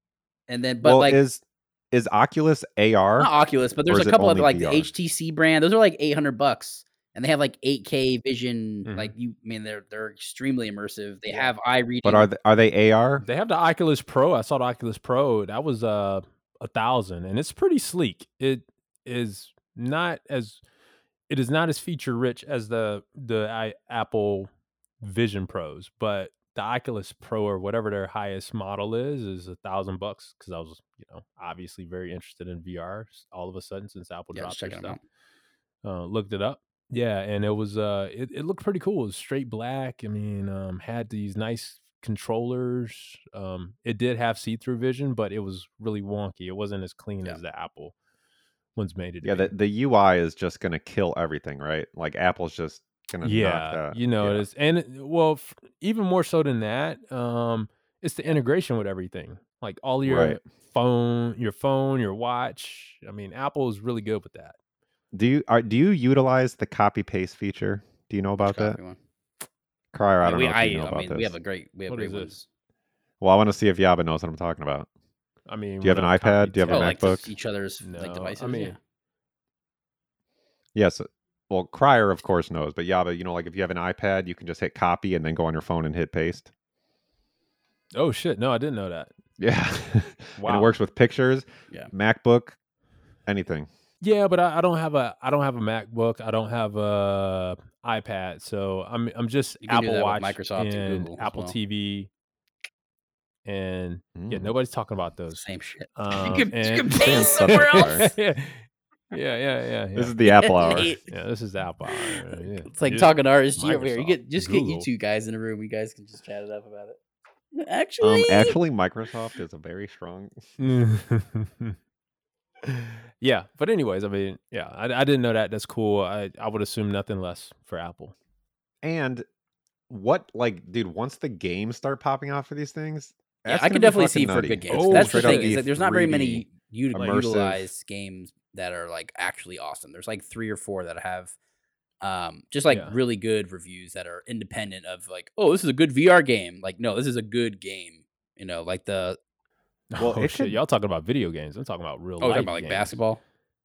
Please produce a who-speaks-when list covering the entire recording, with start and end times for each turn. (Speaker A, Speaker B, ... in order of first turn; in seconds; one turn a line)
Speaker A: 0.5-1.2
Speaker B: 0.8-3.3
Speaker A: 3.2-12.3
Speaker B: 3.9-4.9
Speaker C: 8.8-9.1
Speaker B: 12.0-13.2
Speaker C: 13.2-20.6
Speaker C: 21.3-24.5
Speaker C: 25.0-35.0
Speaker A: 34.3-35.0
Speaker C: 35.8-47.9
Speaker C: 48.7-49.5
Speaker B: 49.2-54.5
Speaker C: 53.2-64.5
Speaker B: 60.0-60.4
Speaker B: 65.1-68.8
Speaker A: 68.4-69.0
Speaker B: 69.9-71.3
Speaker A: 70.2-72.4
Speaker C: 71.9-72.3
Speaker B: 73.2-74.9
Speaker C: 75.5-77.3
Speaker B: 75.8-77.3
Speaker A: 76.7-78.8
Speaker C: 77.8-78.7
Speaker B: 80.7-86.5
Speaker C: 87.9-89.1
Speaker B: 89.4-92.6
Speaker C: 90.4-90.8
Speaker B: 93.2-93.7
Speaker C: 94.0-102.1
Speaker A: 99.6-101.5
Speaker C: 103.4-105.4
Speaker B: 104.1-104.5
Speaker A: 105.3-108.1
Speaker C: 105.9-110.2
Speaker B: 106.9-108.1
Speaker B: 110.0-110.9
Speaker A: 110.2-111.1
Speaker C: 110.8-114.9
Speaker A: 112.1-117.0
Speaker A: 117.5-118.5
Speaker B: 118.0-120.4
Speaker C: 120.6-121.8
Speaker C: 122.6-128.1
Speaker B: 128.8-129.2
Speaker B: 129.9-137.7
Speaker A: 133.4-141.3
Speaker C: 134.7-135.5
Speaker A: 142.0-149.2
Speaker C: 142.7-142.9
Speaker C: 149.9-153.0
Speaker B: 150.0-150.6
Speaker A: 152.2-153.2